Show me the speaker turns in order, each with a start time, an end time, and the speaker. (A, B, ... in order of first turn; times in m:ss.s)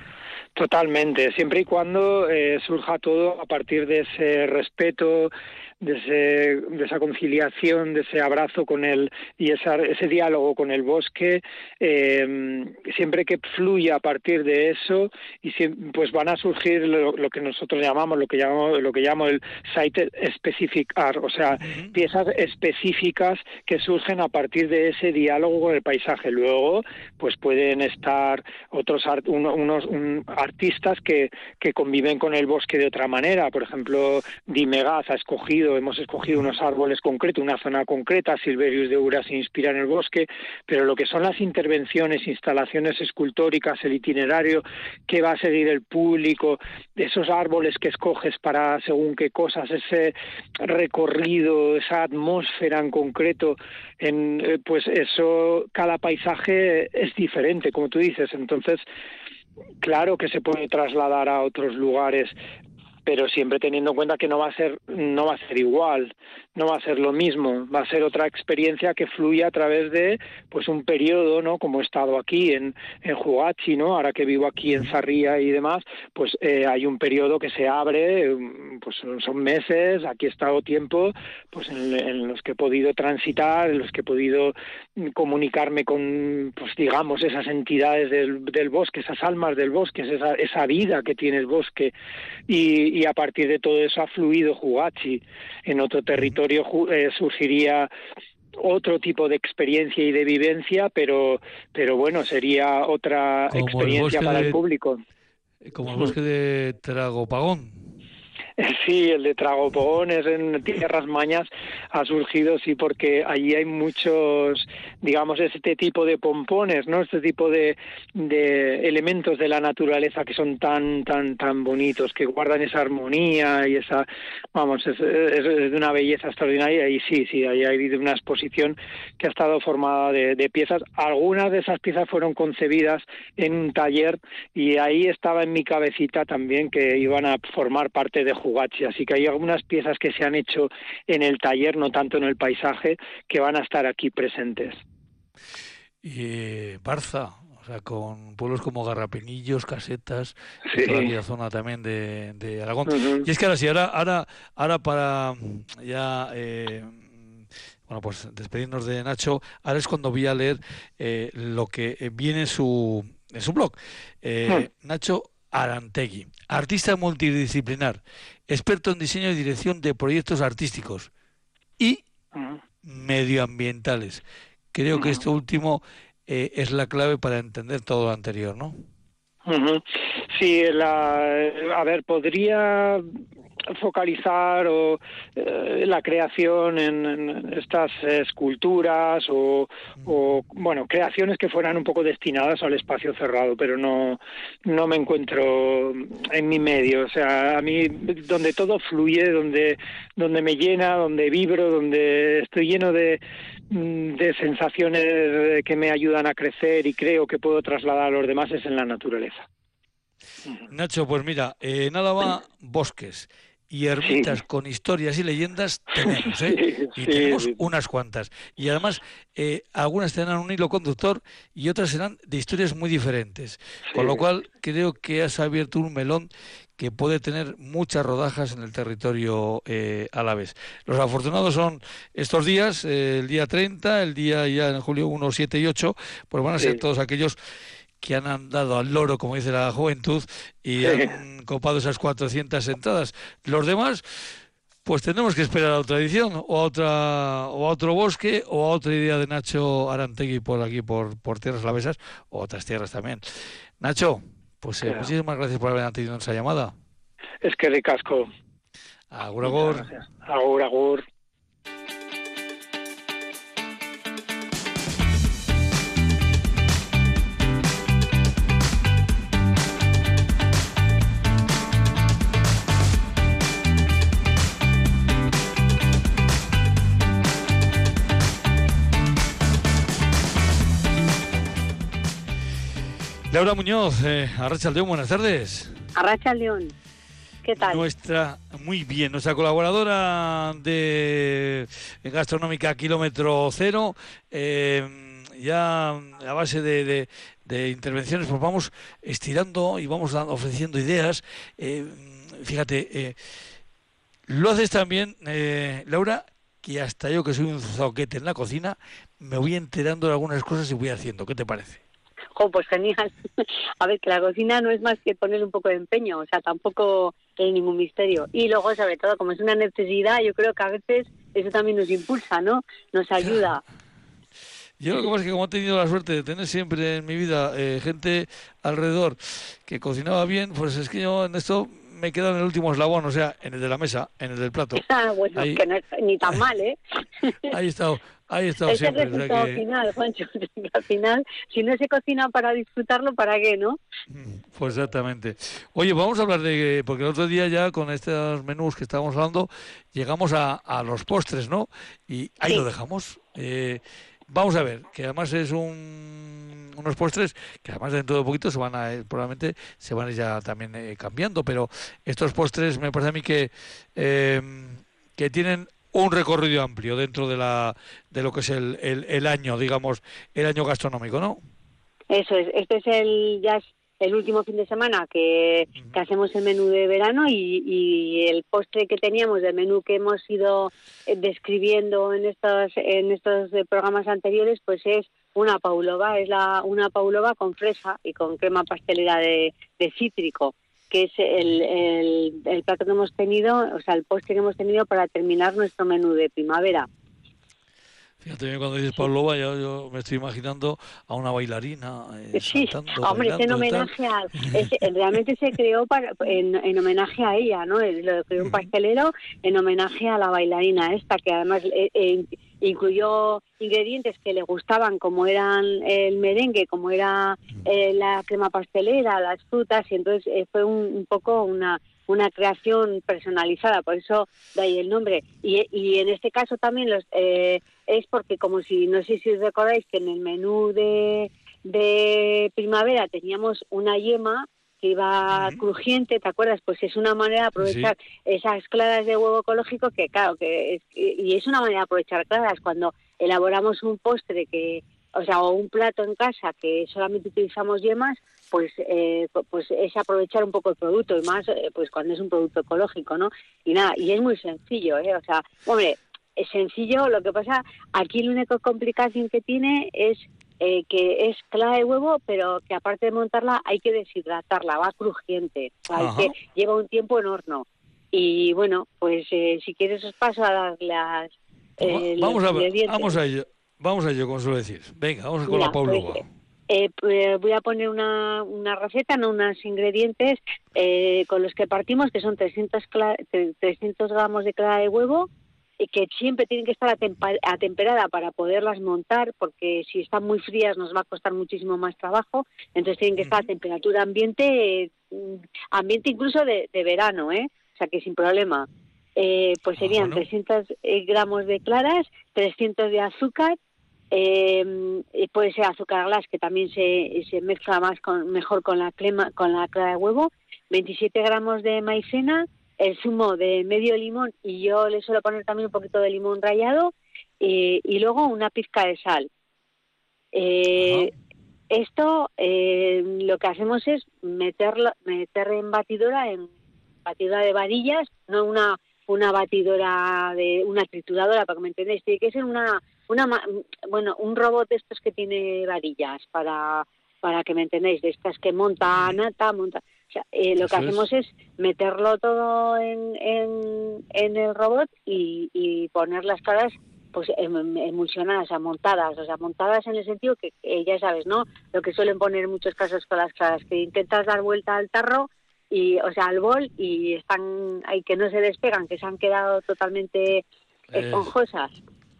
0:00.6-0:58.8 A
0:21.6-0:21.9 B
0:59.8-1:02.3 A
1:03.0-1:31.9 A
1:32.5-1:37.9 A
1:38.6-1:45.0 A
1:43.5-1:44.6 B
1:45.6-1:47.9 B
1:48.6-2:24.8 A
2:26.0-2:51.1 B
2:30.7-2:31.1 A
2:32.9-2:33.3 A
2:52.3-2:52.6 A
2:52.8-2:54.2 B
2:54.7-2:58.7 B
2:54.9-2:55.2 A
2:59.4-2:59.8 A
3:00.3-3:03.1 A
3:03.7-3:29.4 A
3:30.7-3:57.4 B
3:34.0-3:34.3 A
3:36.0-3:37.6 A
3:43.9-3:44.2 A
3:58.0-4:04.3 B
4:00.8-4:01.2 A
4:04.8-4:13.2 B
4:13.8-4:16.7 B
4:17.4-4:18.3 A
4:19.1-4:19.9 B
4:19.4-4:21.0 A
4:43.3-4:45.8 B
4:45.9-4:46.7 C
4:47.4-4:47.8 C
4:47.6-5:03.2 B
5:04.3-5:11.8 B
5:12.4-5:13.1 C
5:13.8-5:23.6 C
5:24.8-5:35.6 B
5:34.8-5:37.5 C
5:37.5-5:39.6 B
5:38.6-5:43.8 C
5:44.1-6:11.4 B
6:12.1-6:36.9 C
6:38.2-6:43.9 B
6:42.3-7:53.2 C
7:15.3-7:15.6 B
7:17.6-7:17.9 B
7:45.9-7:46.3 B
7:51.8-7:56.2 B
7:55.4-8:23.6 C
8:13.2-8:13.4 B
8:19.8-8:20.2 B
8:24.1-8:39.3 C
8:40.3-8:41.1 C
8:40.7-8:41.1 B
8:41.7-8:46.5 C
8:47.0-9:21.7 C
9:00.6-9:01.0 B
9:20.9-9:21.3 B